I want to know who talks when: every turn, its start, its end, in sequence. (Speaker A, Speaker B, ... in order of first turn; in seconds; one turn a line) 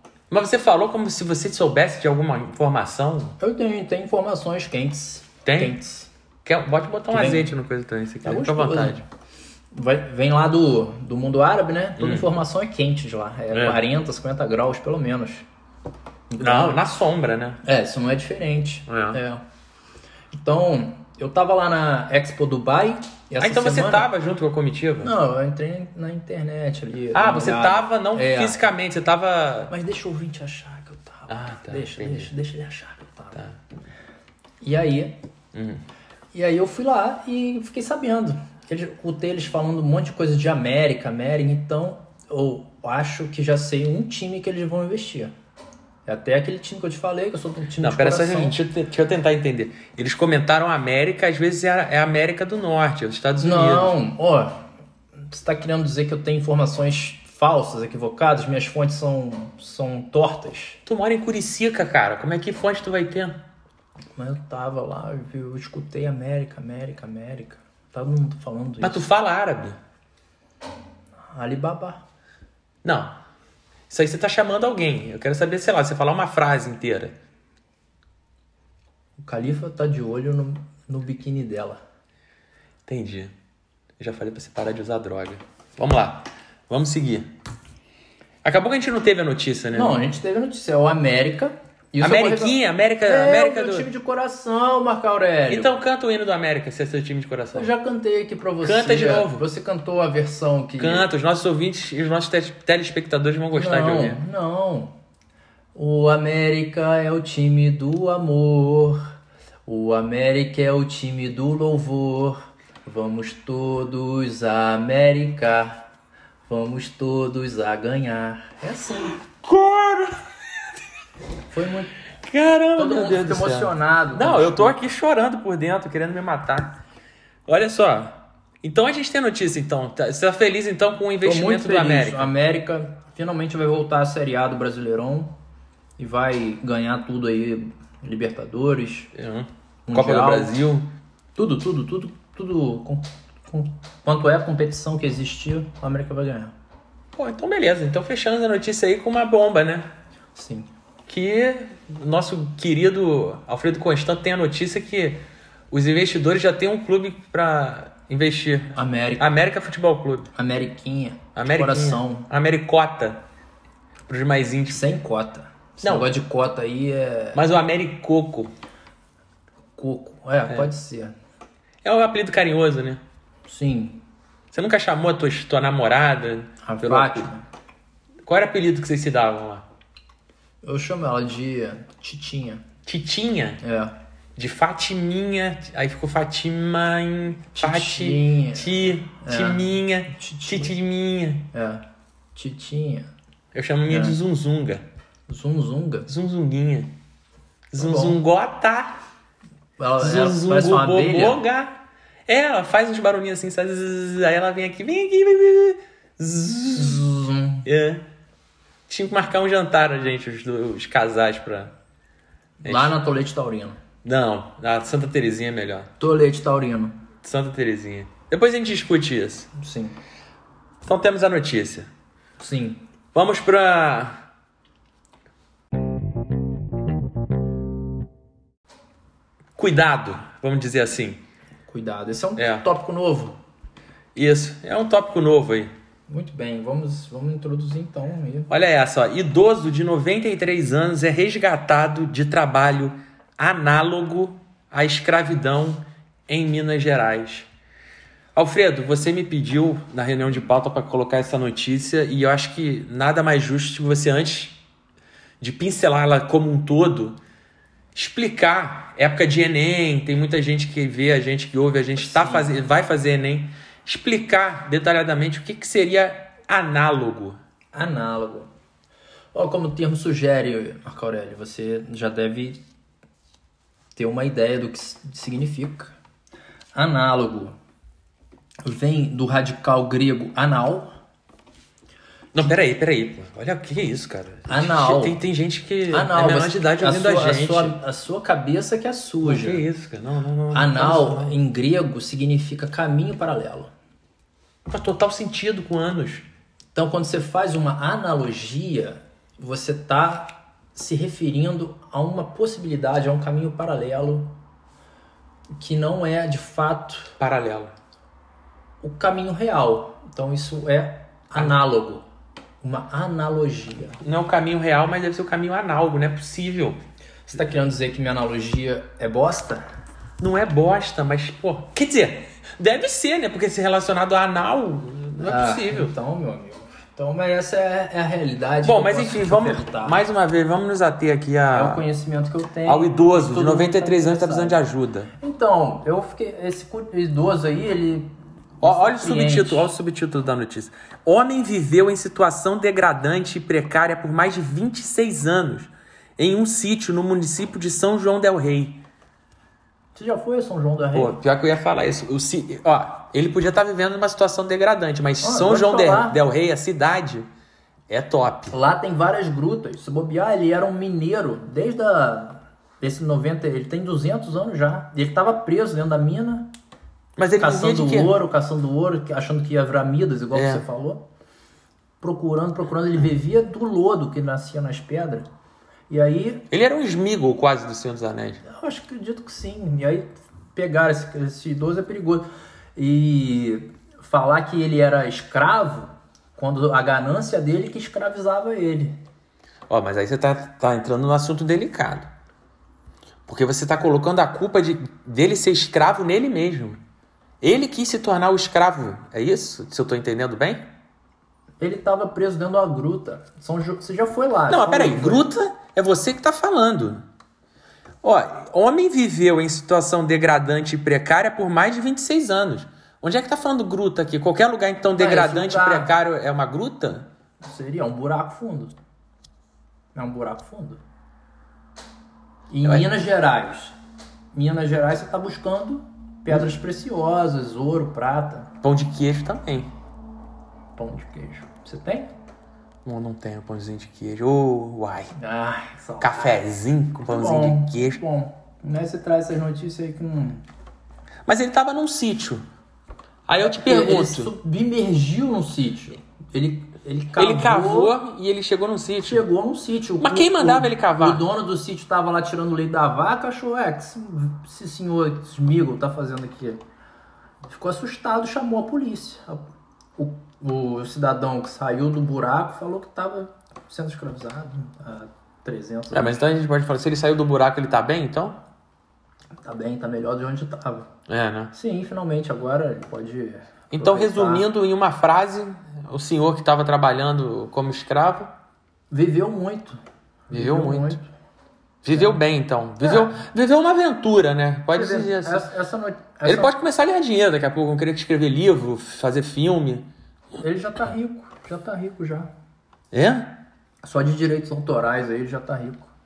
Speaker A: 0.3-3.4
Speaker B: 3.4-6.1
Speaker A: 5.5-5.8
Speaker A: 6.5-9.1
Speaker B: 7.1-7.5
Speaker B: 8.2-9.0
Speaker B: 9.7-15.4
Speaker A: 12.0-12.3
Speaker A: 13.5-13.8
Speaker B: 16.3-16.8
Speaker A: 16.4-17.6
Speaker B: 17.6-19.4
Speaker A: 18.9-19.2
Speaker B: 20.3-24.1
Speaker A: 23.4-25.1
Speaker B: 25.0-28.6
Speaker A: 27.1-29.7
Speaker B: 29.7-33.4
Speaker A: 31.3-32.3
Speaker B: 34.6-35.2
Speaker A: 35.5-35.8
Speaker B: 36.3-45.3
Speaker B: 46.1-48.6
Speaker A: 47.8-54.0
Speaker B: 53.4-54.5
Speaker B: 55.3-60.8
Speaker A: 60.9-63.4
Speaker B: 64.2-69.0
Speaker A: 68.8-69.8
Speaker B: 71.3-72.0
Speaker A: 72.8-73.1
Speaker A: 73.9-77.2
Speaker B: 79.2-81.8
Speaker A: 82.9-83.3
Speaker A: 84.0-87.3
Speaker A: 88.4-90.0
Speaker B: 89.7-95.8
Speaker A: 92.0-93.9
Speaker A: 95.5-97.7
Speaker B: 97.5-101.1
Speaker A: 98.6-99.5
Speaker A: 100.8-104.2
Speaker B: 103.5-104.9
Speaker B: 105.8-109.0
Speaker B: 109.7-115.8
Speaker B: 116.5-119.2
Speaker A: 119.4-120.2
Speaker B: 121.5-122.0
Speaker A: 122.2-126.8
Speaker B: 122.8-124.9
Speaker A: 127.5-132.3
Speaker B: 131.2-135.3
Speaker B: 136.0-139.1
Speaker A: 139.1-140.9
Speaker B: 139.9-140.5
Speaker B: 141.4-146.5
Speaker A: 147.2-149.9
Speaker B: 150.3-150.7
Speaker A: 151.1-160.3
Speaker B: 158.8-159.3
Speaker B: 160.3-162.3
Speaker A: 161.4-163.2
Speaker A: 164.1-164.8
Speaker B: 164.7-167.4
Speaker A: 165.8-166.1
Speaker A: 167.3-168.5
Speaker B: 169.8-171.2
Speaker A: 171.8-173.0
Speaker B: 173.5-174.0
Speaker A: 174.5-177.3
Speaker B: 176.6-177.4
Speaker A: 178.2-179.7
Speaker B: 180.6-182.7
Speaker A: 182.9-183.6
Speaker B: 183.6-183.9
Speaker A: 184.4-191.5
Speaker B: 187.6-190.8
Speaker B: 191.5-193.1
Speaker A: 193.5-194.8
Speaker B: 193.9-194.2
Speaker B: 195.3-196.1
Speaker A: 196.1-196.9
Speaker A: 197.7-199.0
Speaker B: 197.8-198.2
Speaker B: 199.8-201.4
Speaker A: 200.0-207.1
Speaker B: 206.7-207.7
Speaker A: 207.7-208.0
Speaker A: 208.9-211.7
Speaker B: 212.6-213.8
Speaker A: 212.6-212.9
Speaker A: 214.0-215.9
Speaker B: 216.0-217.0
Speaker A: 217.2-219.5
Speaker B: 219.6-220.0
Speaker A: 220.8-221.9
Speaker B: 222.4-222.8
Speaker A: 223.1-224.1
Speaker A: 229.6-231.2
Speaker B: 231.7-233.4
Speaker A: 232.4-232.6
Speaker A: 234.2-235.7
Speaker B: 236.1-238.5
Speaker A: 238.5-247.5
Speaker A: 248.3-254.6
Speaker A: 255.4-257.2
Speaker A: 257.9-267.4
Speaker B: 262.0-262.6
Speaker B: 267.7-268.5
Speaker B: 269.3-272.6
Speaker B: 273.9-275.9
Speaker B: 276.8-277.6
Speaker B: 278.6-280.9
Speaker A: 282.3-287.8
Speaker B: 284.5-285.2
Speaker B: 285.9-289.6
Speaker A: 289.2-291.4
Speaker B: 290.5-293.7
Speaker A: 294.7-296.3
Speaker B: 296.8-304.3
Speaker B: 305.5-307.2
Speaker A: 307.2-307.7
Speaker B: 308.8-312.0
Speaker B: 312.6-314.0
Speaker A: 314.0-316.8
Speaker B: 317.3-319.6
Speaker A: 320.2-325.9
Speaker B: 325.2-330.0
Speaker A: 328.6-331.8
Speaker B: 331.5-334.6
Speaker A: 332.7-335.1
Speaker B: 335.2-339.7
Speaker A: 338.6-348.8
Speaker B: 349.9-351.2
Speaker A: 350.9-357.3
Speaker B: 355.2-356.2
Speaker A: 357.9-358.5
Speaker B: 358.5-366.5
Speaker A: 367.2-368.1
Speaker B: 367.4-371.1
Speaker A: 370.3-370.6
Speaker B: 372.0-375.3
Speaker B: 375.9-376.4
Speaker A: 376.5-378.4
Speaker B: 378.4-389.0
Speaker A: 389.7-392.1
Speaker A: 393.3-396.8
Speaker A: 397.4-400.6
Speaker B: 401.6-405.3
Speaker A: 404.5-407.0
Speaker A: 408.0-417.1
Speaker B: 415.0-415.9
Speaker B: 417.4-418.7
Speaker B: 419.9-420.8
Speaker B: 422.5-423.8
Speaker A: 422.6-422.9
Speaker B: 424.3-428.5
Speaker A: 428.6-429.7
Speaker B: 430.8-432.1
Speaker A: 432.9-435.1
Speaker B: 435.1-436.4
Speaker A: 436.0-438.0
Speaker B: 437.1-440.4
Speaker A: 441.3-442.4
Speaker A: 443.3-444.3
Speaker B: 443.4-448.0
Speaker A: 447.2-449.2
Speaker B: 449.0-456.6
Speaker A: 450.0-451.2
Speaker B: 457.5-466.2
Speaker A: 465.9-468.4
Speaker B: 469.4-470.9
Speaker A: 471.1-471.5
Speaker B: 471.5-474.5
Speaker A: 473.7-478.3
Speaker B: 478.9-481.0
Speaker A: 480.3-481.0
Speaker A: 481.8-485.5
Speaker B: 481.9-482.2
Speaker B: 482.8-483.2
Speaker B: 484.7-486.5
Speaker A: 486.2-489.9
Speaker B: 490.4-492.3
Speaker A: 492.9-493.4
Speaker B: 493.8-495.9